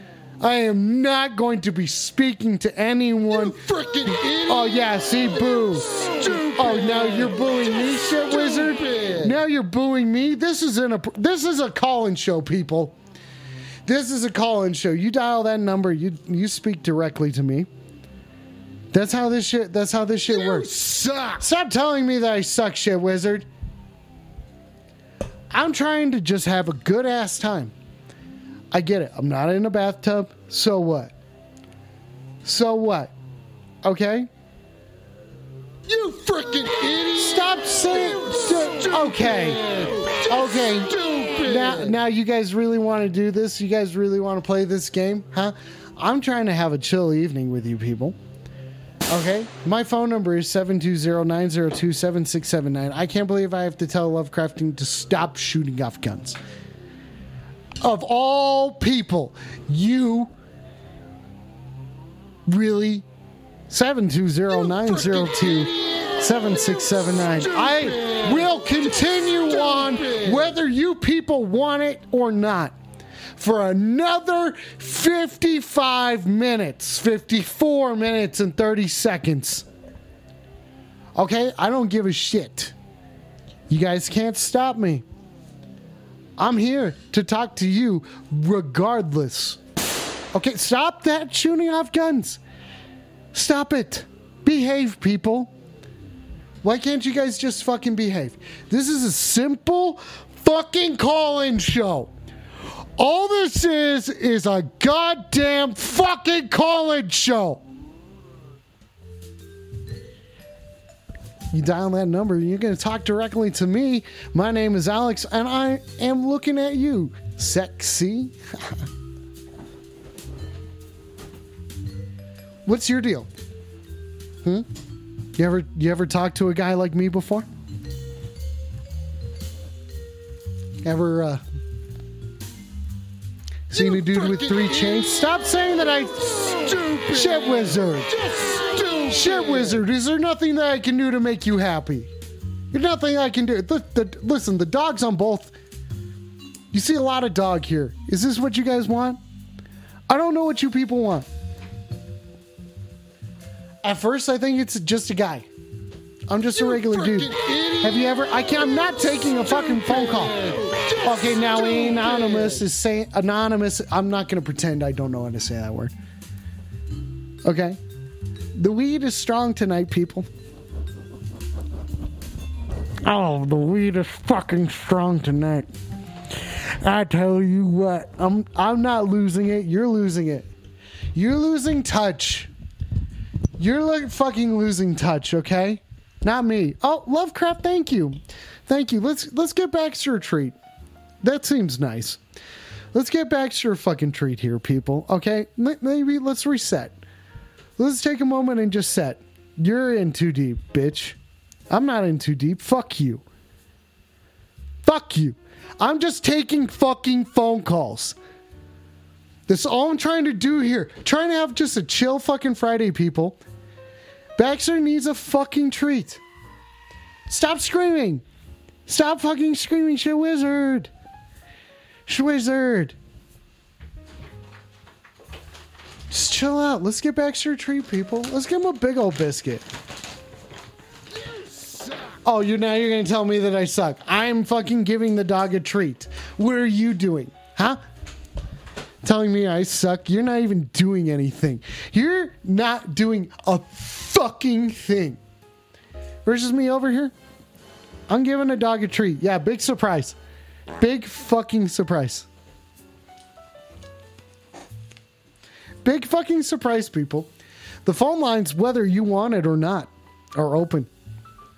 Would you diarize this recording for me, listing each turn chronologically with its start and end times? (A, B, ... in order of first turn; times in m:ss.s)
0:00.4-0:13.0 A
0:03.4-0:04.7 B
0:06.2-0:07.3 B
0:07.8-0:09.3 B
0:13.9-0:17.7 A
0:18.9-0:20.7 A
0:20.4-0:21.4 B
0:21.3-0:23.4 A
0:25.5-0:27.7 A
0:28.7-0:31.1 A
0:32.4-0:33.1 A
0:33.8-0:34.3 A
0:35.9-0:37.3 B
0:37.1-0:39.6 A
0:38.9-0:41.7 B
0:40.3-0:48.2 A
0:49.1-0:56.4 A
0:57.8-1:00.3 A
1:02.5-1:03.1 A
1:03.7-1:12.8 A
1:07.9-1:08.2 B
1:13.4-1:19.7 A
1:21.1-1:22.7 A
1:23.7-1:25.0 A
1:26.4-1:29.6 A
1:30.3-1:32.4 A
1:33.3-1:35.5 A
1:36.6-1:42.1 A
1:43.0-1:47.6 A
1:51.5-1:58.8 A
2:02.6-2:03.3 A
2:05.4-2:07.5 A
2:10.8-2:11.4 A
2:13.7-2:16.5 A
2:14.2-2:14.6 B
2:16.5-2:17.3 B
2:17.1-2:18.2 A
2:18.2-2:19.2 B
2:19.0-2:22.1 A
2:22.7-2:25.5 A
2:26.7-2:29.2 A
2:30.1-2:31.3 A
2:33.8-2:35.5 A
2:36.3-2:40.4 A
2:36.7-2:38.0 B
2:39.6-2:42.4 B
2:41.0-2:45.9 A
2:47.4-2:47.8 A
2:48.6-2:50.3 A
2:53.0-2:55.7 A
2:56.8-3:00.5 A
3:01.1-3:02.5 A
3:03.6-3:10.6 A
3:11.2-3:12.2 A
3:12.9-3:17.0 A
3:17.8-3:21.2 A
3:21.7-3:23.2 A
3:24.8-3:28.2 A
3:29.5-3:33.4 A
3:34.4-3:36.2 A
3:37.3-3:38.2 A
3:38.9-3:40.9 A
3:42.1-3:43.0 A
3:46.1-3:49.7 A
3:51.6-3:52.1 B
3:52.2-3:57.8 A
3:59.0-4:05.2 A
4:06.2-4:07.1 A
4:08.1-4:10.2 A
4:10.8-4:12.3 A
4:15.8-4:17.3 A
4:17.8-4:20.9 A